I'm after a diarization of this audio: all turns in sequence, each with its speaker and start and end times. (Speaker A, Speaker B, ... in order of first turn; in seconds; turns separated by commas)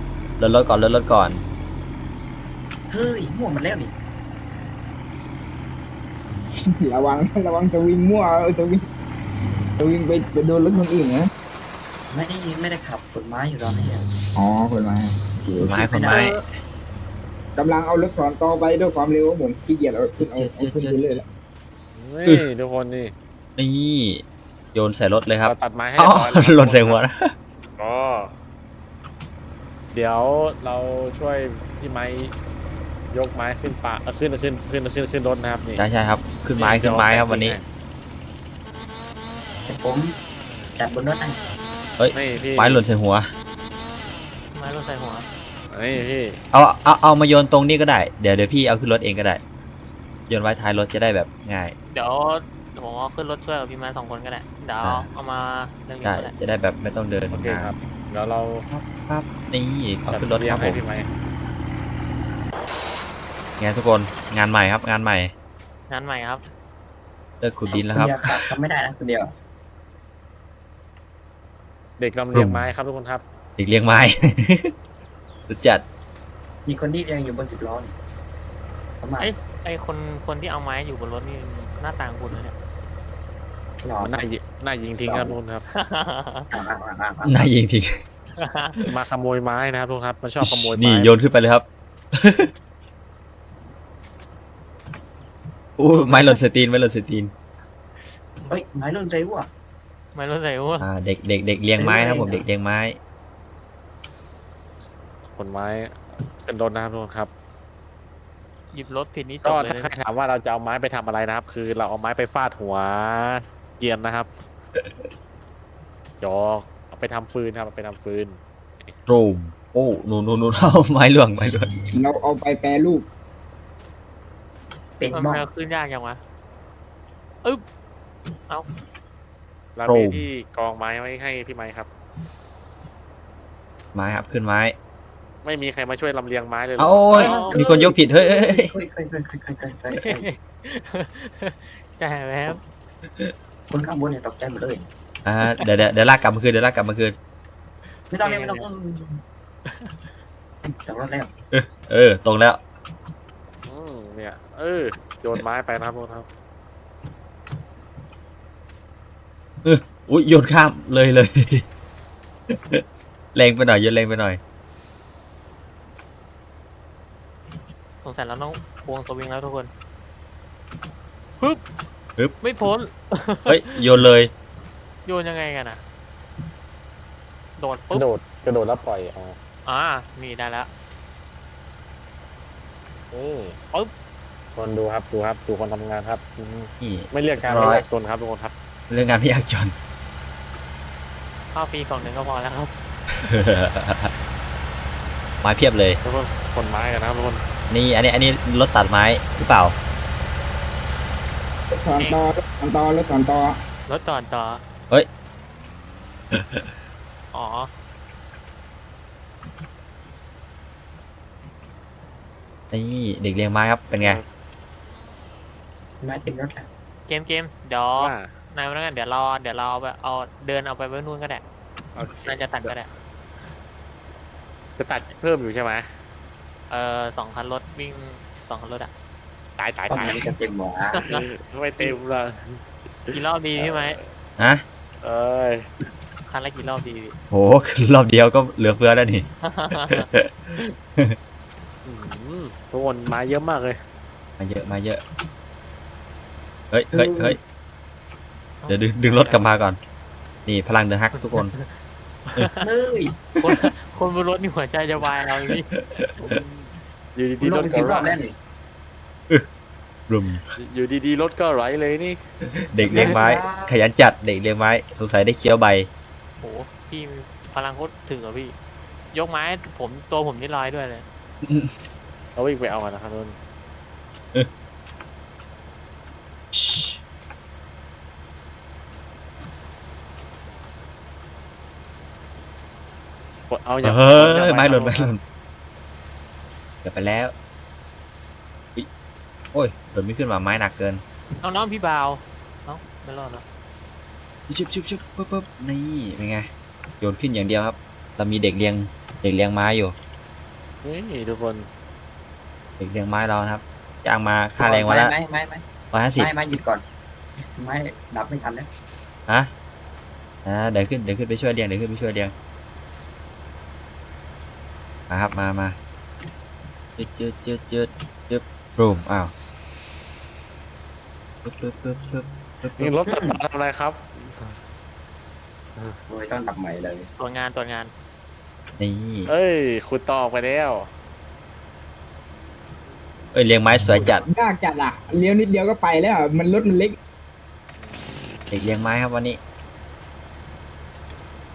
Speaker A: 0.4-1.4, Speaker B: 2.9-3.9, Speaker C: 6.8-8.8, Speaker C: 9.8-11.3, Speaker B: 12.1-14.1, Speaker C: 14.3-16.2, Speaker B: 15.5-16.3, Speaker A: 15.6-16.4, Speaker C: 17.6-21.2, Speaker A: 20.2-21.0, Speaker D: 21.9-23.1, Speaker A: 23.6-27.3, Speaker D: 25.4-27.0, Speaker D: 27.8-28.3, Speaker D: 29.9-32.3, Speaker D: 33.1-35.8, Speaker A: 35.8-37.6, Speaker D: 36.5-37.6, Speaker B: 39.6-40.1, Speaker B: 40.8-41.4, Speaker A: 42.0-43.3, Speaker D: 42.1-42.8, Speaker E: 44.5-45.2, Speaker D: 45.7-46.4, Speaker A: 46.5-49.4, Speaker A: 50.3-51.7, Speaker E: 51.9-56.3, Speaker A: 56.0-57.7, Speaker D: 57.3-58.6, Speaker A: 58.7-60.8, Speaker D: 60.1-61.1, Speaker A: 63.6-65.3, Speaker E: 65.9-66.4, Speaker A: 67.4-68.5, Speaker B: 67.7-69.3, Speaker D: 72.0-73.2, Speaker A: 72.3-72.7, Speaker A: 73.6-74.7, Speaker A: 75.5-75.8, Speaker B: 76.7-77.9, Speaker B: 79.0-79.3, Speaker E: 79.2-82.5, Speaker B: 83.8-84.1, Speaker D: 84.0-85.6, Speaker B: 85.0-85.3, Speaker E: 85.7-86.5, Speaker B: 86.5-87.4, Speaker A: 87.2-88.0, Speaker E: 88.4-88.8, Speaker D: 88.8-91.1, Speaker A: 90.4-92.5, Speaker A: 95.8-97.3, Speaker E: 95.9-96.4, Speaker B: 98.4-99.5, Speaker E: 100.1-100.9, Speaker A: 100.8-103.0, Speaker B: 101.8-102.5, Speaker D: 105.3-107.3, Speaker E: 108.7-109.9, Speaker D: 109.4-114.3, Speaker D: 116.2-118.9, Speaker A: 119.1-121.7, Speaker C: 121.9-123.0, Speaker B: 125.0-125.5, Speaker E: 125.1-126.2, Speaker D: 129.8-131.9, Speaker A: 129.8-130.2, Speaker A: 133.9-134.7, Speaker D: 135.4-137.4, Speaker A: 136.8-138.7, Speaker E: 137.1-137.5, Speaker B: 137.2-140.3, Speaker E: 139.9-142.6, Speaker B: 143.7-144.9, Speaker A: 145.2-147.1, Speaker B: 148.1-149.2, Speaker E: 148.2-148.6, Speaker B: 150.6-151.3, Speaker A: 151.5-152.6, Speaker D: 153.7-156.2, Speaker A: 159.6-161.6, Speaker A: 162.5-164.4, Speaker E: 168.0-169.7, Speaker E: 172.4-173.8, Speaker A: 173.5-174.3, Speaker E: 175.1-175.8, Speaker E: 177.6-178.0, Speaker D: 177.9-179.3, Speaker E: 179.7-180.7, Speaker D: 183.1-183.6, Speaker D: 184.6-188.5, Speaker A: 186.8-187.8, Speaker A: 188.9-189.7, Speaker E: 191.5-192.7, Speaker A: 193.2-194.1, Speaker A: 195.4-196.0, Speaker D: 196.0-197.4, Speaker A: 197.7-199.7, Speaker C: 201.7-203.6, Speaker E: 202.0-202.3, Speaker E: 203.9-204.6, Speaker A: 206.3-206.7, Speaker E: 207.3-207.7, Speaker A: 212.7-214.2, Speaker D: 214.0-214.2, Speaker B: 216.0-216.7, Speaker E: 217.1-221.4, Speaker D: 218.0-218.3, Speaker D: 221.9-222.7, Speaker E: 222.2-222.9, Speaker D: 224.8-225.8, Speaker E: 226.7-228.9, Speaker D: 229.6-230.3, Speaker B: 229.9-231.1, Speaker E: 230.9-231.2, Speaker D: 231.1-234.0, Speaker E: 233.1-234.0, Speaker A: 234.4-234.6, Speaker D: 235.0-235.6, Speaker E: 236.3-237.1, Speaker A: 237.3-241.2, Speaker E: 239.4-240.1, Speaker D: 241.8-243.8, Speaker A: 244.4-245.0, Speaker A: 246.7-247.4, Speaker B: 246.9-247.4, Speaker E: 248.6-249.4, Speaker A: 248.7-249.8, Speaker A: 250.4-251.5, Speaker E: 251.2-251.7, Speaker E: 252.3-252.6, Speaker B: 252.6-253.2, Speaker E: 253.4-255.6, Speaker A: 255.4-256.4, Speaker D: 256.2-258.1, Speaker B: 257.4-258.3, Speaker A: 260.1-260.5, Speaker D: 260.6-262.2, Speaker A: 262.7-265.9, Speaker B: 262.8-263.8, Speaker E: 266.4-268.5, Speaker E: 269.1-271.0, Speaker A: 271.4-271.8, Speaker D: 272.4-273.3, Speaker A: 276.5-277.0, Speaker D: 283.5-285.1, Speaker A: 283.8-285.2, Speaker A: 286.8-287.3, Speaker A: 289.5-291.0, Speaker E: 291.4-293.4, Speaker A: 294.5-296.4, Speaker A: 297.0-299.9, Speaker D: 300.8-301.6, Speaker A: 302.8-305.1, Speaker B: 304.6-305.6, Speaker A: 305.9-306.3, Speaker B: 306.1-306.8, Speaker B: 307.4-308.7, Speaker A: 310.4-312.3, Speaker A: 315.1-315.8, Speaker A: 317.0-319.3, Speaker A: 321.4-322.9, Speaker D: 322.8-324.5, Speaker B: 323.1-323.4, Speaker B: 326.1-327.1, Speaker E: 327.2-327.9, Speaker A: 328.8-329.3, Speaker D: 329.3-330.9, Speaker A: 333.3-334.2, Speaker C: 334.0-336.9, Speaker D: 337.8-338.5, Speaker A: 338.5-339.4